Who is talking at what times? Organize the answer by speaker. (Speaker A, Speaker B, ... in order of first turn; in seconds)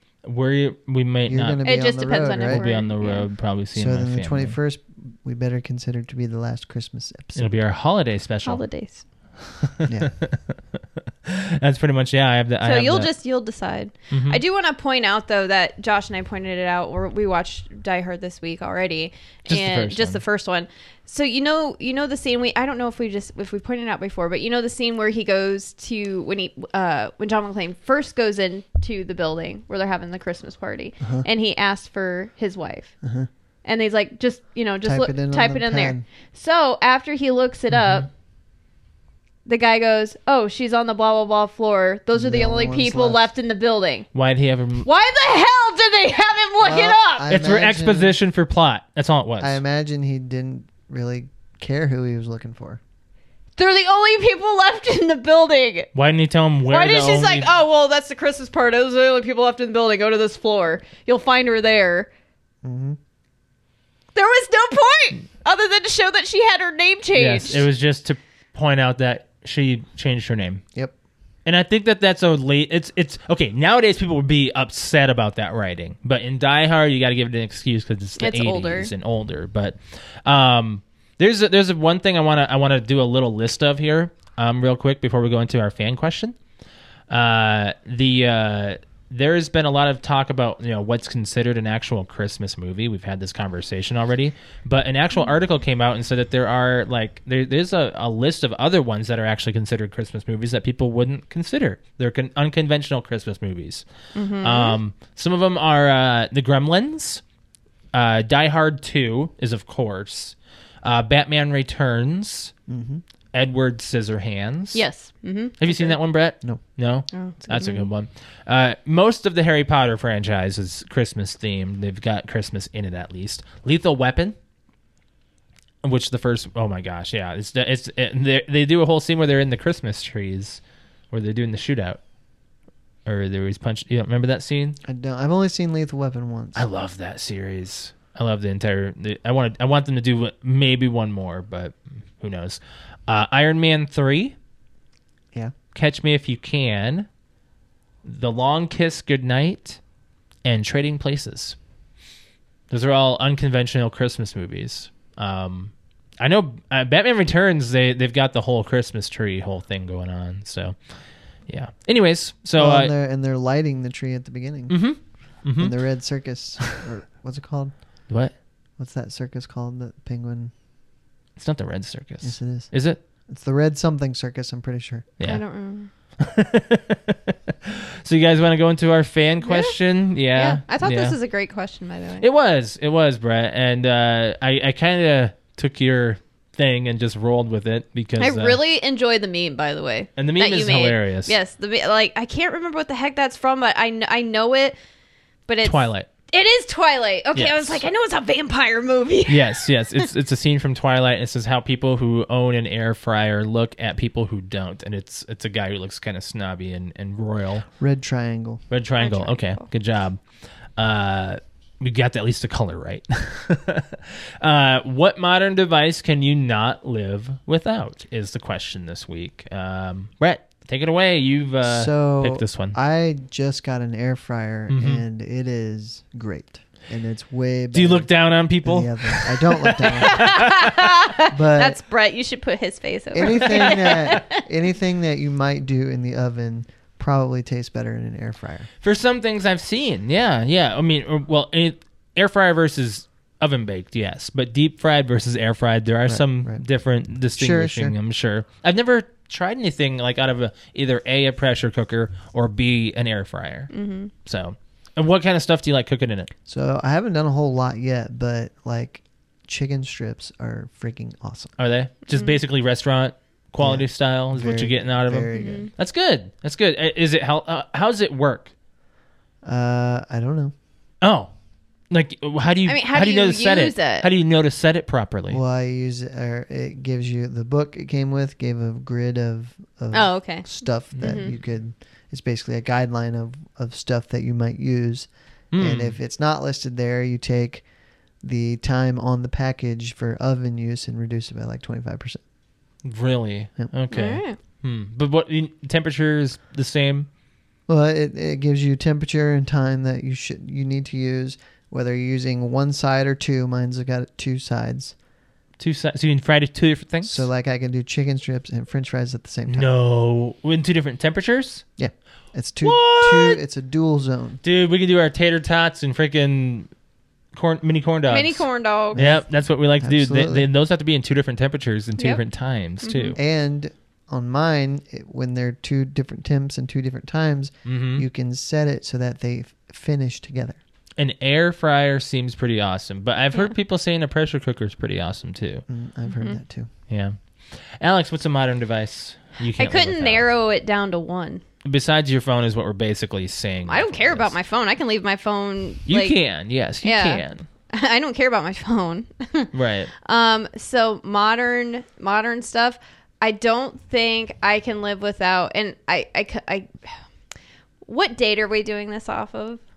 Speaker A: 0.2-1.6, 2.4-4.6, 7.4-8.6, 9.4-10.6, 11.2-13.1, 14.1-14.4, 19.5-20.2, 37.7-38.1, 44.1-44.9, 47.3-49.6, 56.0-57.5, 67.1-70.6, 71.5-86.4, 87.1-103.9, 104.4-107.2, 107.9-112.5, 113.3-114.8, 115.6-124.3, 125.8-130.6, 131.1-132.0, 133.1-134.8, 136.6-144.3, 145.7-147.1, 148.0-149.8, 150.4-151.6, 152.7-160.8, 161.5-162.9, 164.7-165.8, 168.1-168.3, 171.4-173.0, 176.2-181.2, 182.2-188.6, 190.2-191.3, 195.6-196.1, 197.3-197.8, 199.3-207.7, 208.7-210.2, 210.8-222.8, 224.7-225.0, 227.7-231.0, 238.8-256.3, 261.6-268.5, 271.0-271.3, 271.9-275.4, 285.5-286.0, 292.8-297.1, 305.6-307.3, 309.5-311.6, 312.6-313.4, 314.4-316.7, 317.3-323.2, 327.6-328.1, 331.0-335.6, 336.9-340.3, 341.6-344.3, 345.9-347.4, 349.5-349.9
Speaker B: 1.3-2.7, 3.8-7.5, 9.9-10.1, 31.0-31.2, 33.0-33.3, 34.8-36.0, 42.1-43.2, 46.6-48.2, 49.4-52.8, 62.6-63.0, 112.7-113.0, 134.8-136.7, 162.6-164.8, 165.6-167.8, 168.8-170.5, 172.2-172.7, 173.3-175.1, 207.8-208.6, 221.6-228.1, 228.6-230.4, 231.3-231.8, 233.1-238.7, 246.1-246.6, 247.4-247.9, 256.5-261.5, 263.6-265.7, 269.4-270.5, 275.3-287.6, 288.2-292.2, 297.7-304.9, 307.0-309.7, 311.8-314.4, 319.0-319.3, 319.8-320.5, 323.2-330.6, 335.7-336.7
Speaker C: 1.6-3.3, 8.4-9.0, 12.6-32.9, 33.6-38.1, 39.5-44.1, 44.8-47.3, 53.6-55.9, 56.7-62.1, 64.2-67.7, 78.2-78.9, 104.2-104.8, 114.7-116.0, 117.1-117.9, 175.2-175.9, 179.4-179.8, 180.3-182.2, 188.2-194.8, 195.5-200.1, 209.0-209.7, 230.0-234.4, 253.7-254.1, 265.3-265.7, 272.7-274.1, 279.9-280.5, 281.0-281.3, 293.9-294.4, 318.1-319.0, 322.8-323.2, 336.1-336.4, 339.6-341.4, 343.7-346.2, 346.8-357.0, 357.9-359.6